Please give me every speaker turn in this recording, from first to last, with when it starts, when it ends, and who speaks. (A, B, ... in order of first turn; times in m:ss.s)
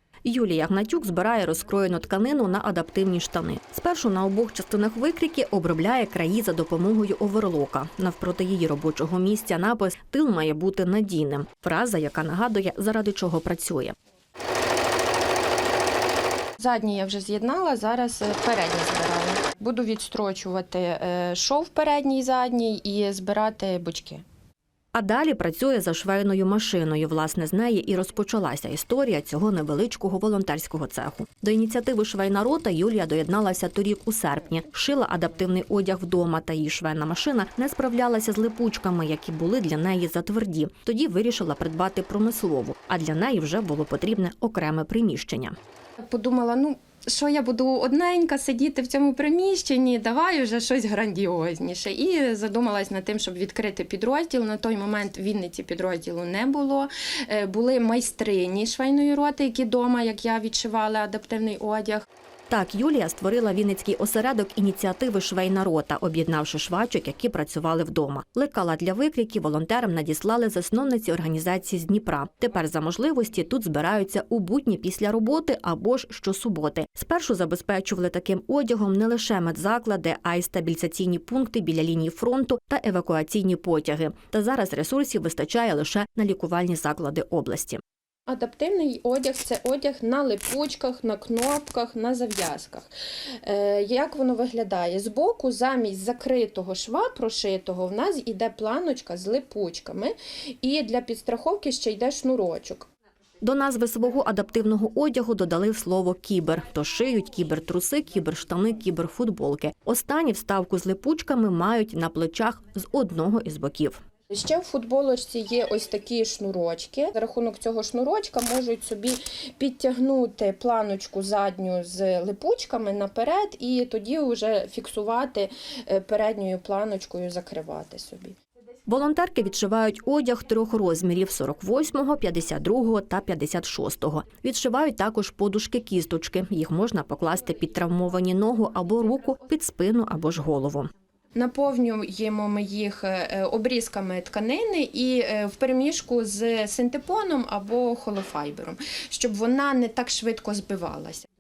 0:00.2-0:14.0 A
0:16.6-0:24.2 B
0:24.9-0:45.6 A
0:46.0-1:02.0 B
1:02.5-1:27.8 A
1:28.3-1:32.9 B
1:33.4-1:42.9 B
1:43.4-1:54.0 A
1:54.3-2:08.4 B
2:08.9-2:20.9 A
2:21.4-2:31.2 B